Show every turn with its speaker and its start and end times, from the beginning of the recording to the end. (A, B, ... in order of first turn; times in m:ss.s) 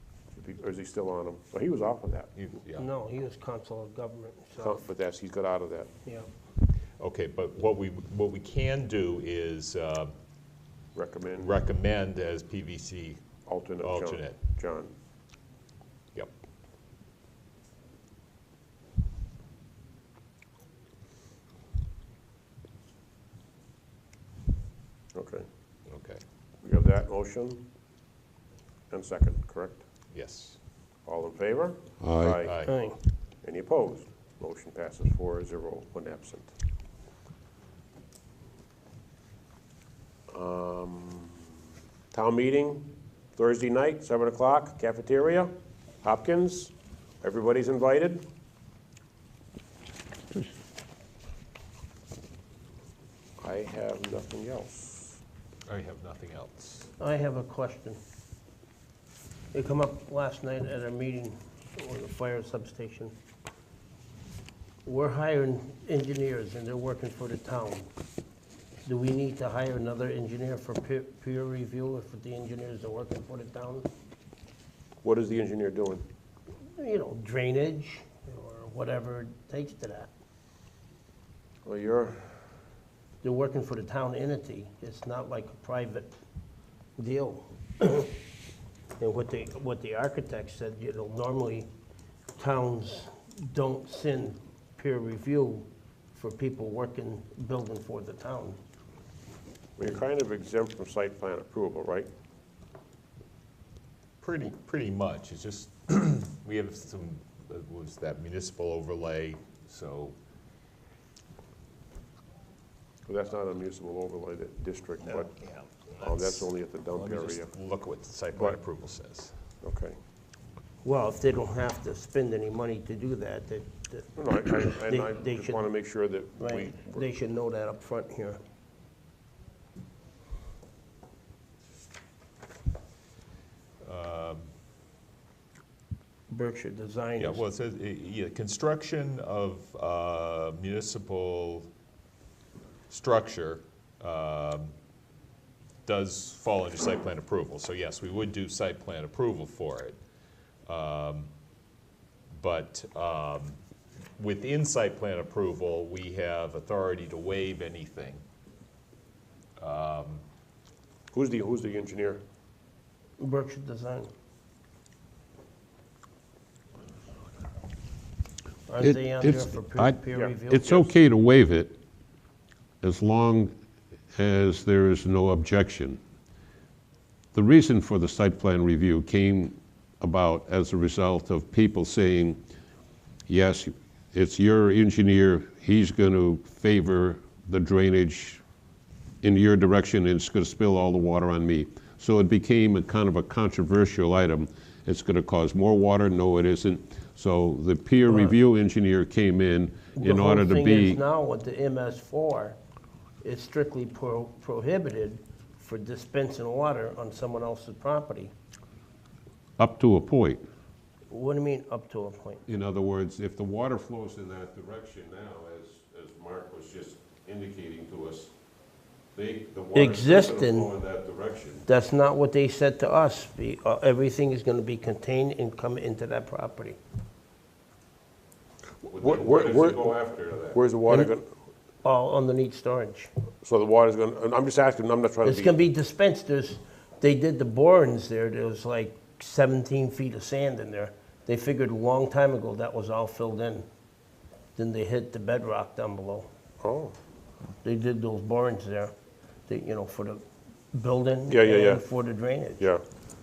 0:00.3-0:02.3 A
0:02.3-0:02.9 B
0:02.8-0:04.8 C
0:04.6-0:05.9 A
0:07.0-0:10.1 B
0:10.9-0:11.5 A
0:11.4-0:13.2 B
0:13.4-0:14.9 A
0:13.8-0:14.4 B
0:25.1-0:25.4 A
0:25.9-0:26.2 B
0:26.6-0:27.6 A
0:28.9-0:29.8 A
0:30.1-0:30.6 B
0:31.0-0:32.6 A
0:32.0-0:32.4 D
0:32.4-0:32.7 B
0:32.7-0:33.0 C
0:33.4-0:36.5 A
0:40.3-0:41.5 A
0:42.1-0:48.2 A
0:53.4-0:55.2 A
0:55.7-0:56.9 B
0:57.0-0:58.0 C
0:59.5-1:03.1 C
1:04.8-1:07.9 C
1:08.8-1:13.9 C
1:15.0-1:16.0 A
1:16.8-1:20.1 C
1:21.6-1:22.3 A
1:23.2-1:26.1 C
1:27.0-1:28.1 C
1:29.0-1:31.7 C
1:32.4-1:38.6 C
1:39.8-1:42.1 A
1:44.2-1:50.2 B
1:53.1-1:55.3 A
1:55.2-1:59.3 B
1:56.0-1:57.5 A
1:58.3-1:58.6 A
1:59.6-2:00.0 A
2:00.8-2:05.7 C
2:04.2-2:07.0 A
2:06.4-2:08.4 C
2:13.8-2:14.4 B
2:16.3-2:17.4 C
2:17.2-2:21.7 B
2:22.9-2:24.7 B
2:25.8-2:30.0 B
2:30.7-2:31.3 B
2:32.4-2:33.6 B
2:34.2-2:38.2 B
2:39.6-2:40.2 B
2:41.1-2:42.2 A
2:43.2-2:44.1 C
2:48.7-2:50.7 C
2:48.8-2:51.8 D
2:50.1-2:50.9 A
2:52.8-2:53.5 D
2:54.1-2:56.0 D
2:57.3-3:02.4 D
3:03.3-3:08.4 D
3:09.2-3:21.0 D
3:20.0-3:22.6 C
3:23.2-3:28.3 C
3:29.6-3:30.4 D
3:31.1-3:32.4 C
3:32.5-3:38.3 D
3:39.1-3:41.6 D
3:39.7-3:40.7 C
3:41.6-3:46.8 C
3:48.9-3:50.6 D
3:48.9-3:49.9 A
3:50.5-3:51.3 A
3:51.8-3:53.1 C
3:53.4-3:55.6 A
3:55.2-4:03.6 C
4:04.6-4:06.3 C
4:06.6-4:06.9 A
4:07.6-4:08.9 C
4:09.5-4:12.6 C
4:11.3-4:11.8 A
4:12.6-4:12.8 A